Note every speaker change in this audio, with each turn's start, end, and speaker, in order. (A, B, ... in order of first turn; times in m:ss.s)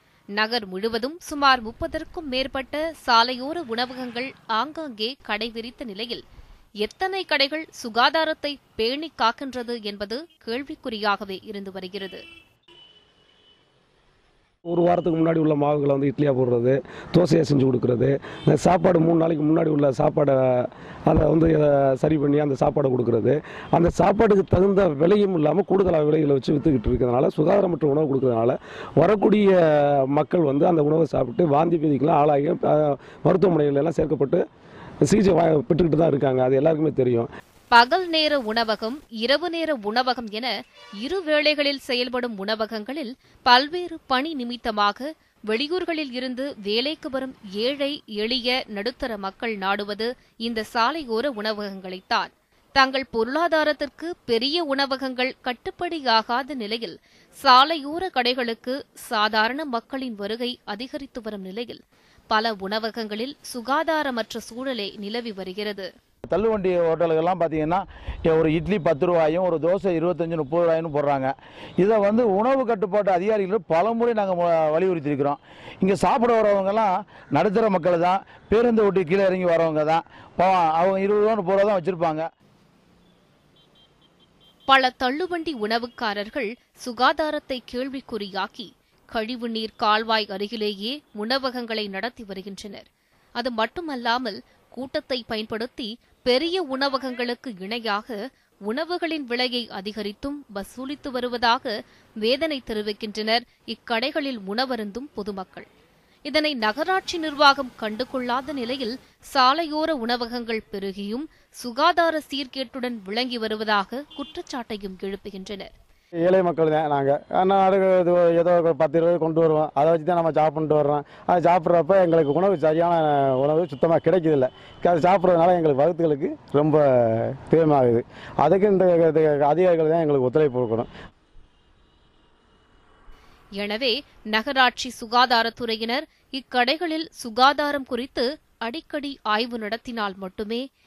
0:00.4-0:06.2 A
0:06.8-0:12.2 A
0:14.7-0:34.4 B
0:35.0-0:37.3 B
0:37.7-0:40.5 A
0:41.0-1:01.8 A
1:02.3-1:05.9 A
1:06.3-1:22.2 C
1:24.7-1:32.8 A
1:33.4-1:45.7 A
1:46.3-1:55.7 A
1:56.2-2:10.9 D
2:13.6-2:20.6 A